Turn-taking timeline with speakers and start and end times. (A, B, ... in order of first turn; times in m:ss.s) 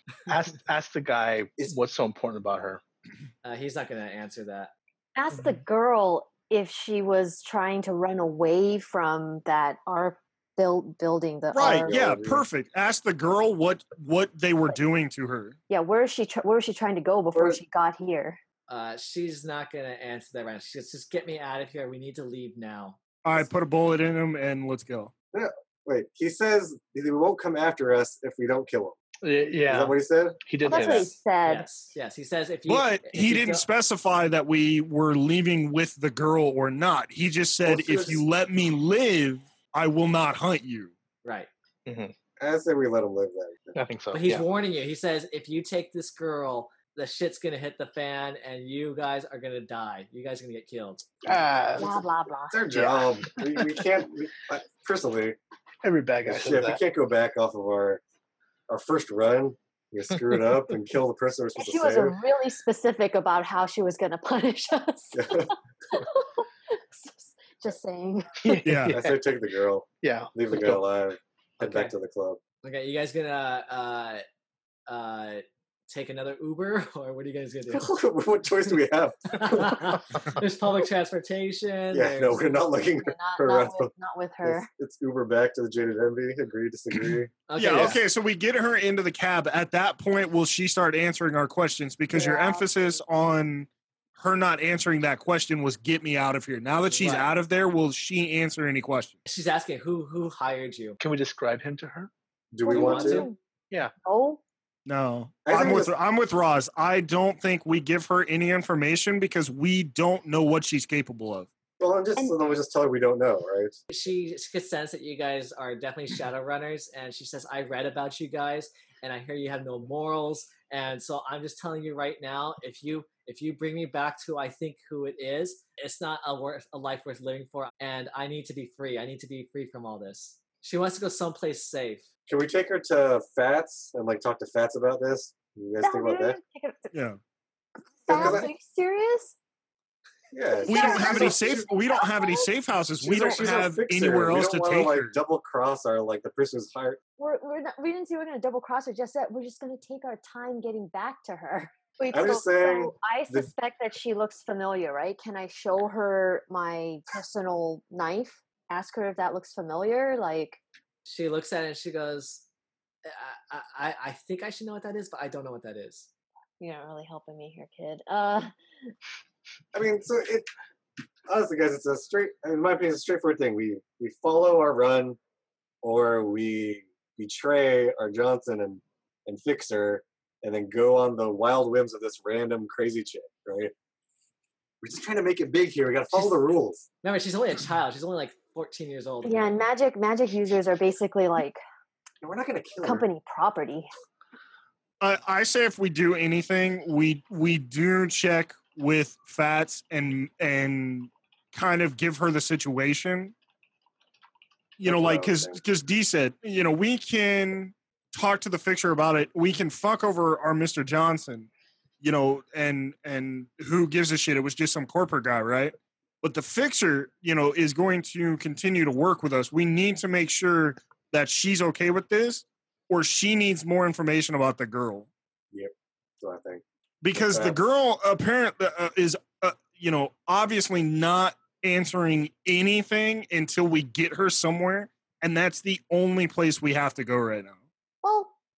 0:00.3-0:02.8 A
0:03.4-0:04.7 B
0:05.2-0:12.0 C
0:11.5-0:15.6 D
0:11.7-0:12.4 E
0:15.7-0:18.4 C
0:17.3-0:17.6 E
0:18.7-0:23.0 B
0:23.2-0:25.1 D
0:25.3-0:29.0 E
0:29.2-0:31.2 A
0:29.7-0:30.4 E
0:30.6-0:31.7 C
0:31.4-0:33.7 B
0:32.7-0:40.9 D
0:37.6-0:38.2 E
0:41.2-0:41.5 B
0:41.9-0:42.1 A
0:42.4-0:43.8 E
0:43.8-0:44.5 A
0:44.1-0:51.1 B
0:51.2-0:52.1 A
0:51.8-0:52.7 C
0:52.5-0:55.4 E
0:52.7-0:53.9 A
0:55.8-0:56.8 A
0:56.3-0:58.0 E
0:58.7-1:02.2 E
1:01.6-1:08.5 C
1:05.2-1:05.5 E
1:08.4-1:09.2 A
1:08.6-1:09.0 D
1:08.9-1:12.4 E
1:10.0-1:10.8 A
1:11.6-1:11.9 B
1:12.6-1:14.2 B
1:14.9-1:18.0 B
1:17.7-1:19.9 E
1:19.3-1:22.5 B
1:21.9-1:23.9 E
1:22.9-1:24.7 C
1:24.4-1:27.3 E
1:27.5-1:28.0 B
1:27.6-1:39.2 D
1:32.1-1:33.0 C
1:36.9-1:37.4 B
1:39.3-1:41.0 B
1:41.0-1:42.1 A
1:42.5-1:43.3 E
1:42.6-1:43.4 C
1:42.7-1:43.3 B
1:44.0-1:44.4 C
1:44.9-1:51.5 D
1:45.5-1:45.9 E
1:51.8-1:53.8 E
1:53.9-2:12.1 B
2:12.3-2:16.4 E
2:15.8-2:17.0 C
2:16.9-2:17.2 D
2:17.9-2:19.4 C
2:18.1-2:18.5 E
2:20.3-2:21.7 E
2:20.5-2:22.5 C
2:20.7-2:25.2 D
2:23.0-2:27.0 E
2:27.2-2:40.6 C
2:32.1-2:33.5 E
2:41.0-2:42.5 B
2:43.1-2:46.1 B
2:46.6-2:48.5 C
2:49.7-2:50.5 E
2:51.3-2:55.2 E
2:55.8-3:03.7 E
3:04.8-3:06.9 E
3:06.1-3:06.4 B
3:07.0-3:09.6 B
3:09.2-3:11.6 C
3:12.2-3:13.1 E
3:12.8-3:13.9 C
3:15.0-3:23.3 D
3:24.8-3:31.5 D
3:24.8-3:25.6 E
3:32.0-3:45.1 D
3:45.5-3:47.6 E
3:47.0-3:57.6 D
3:58.0-3:58.3 C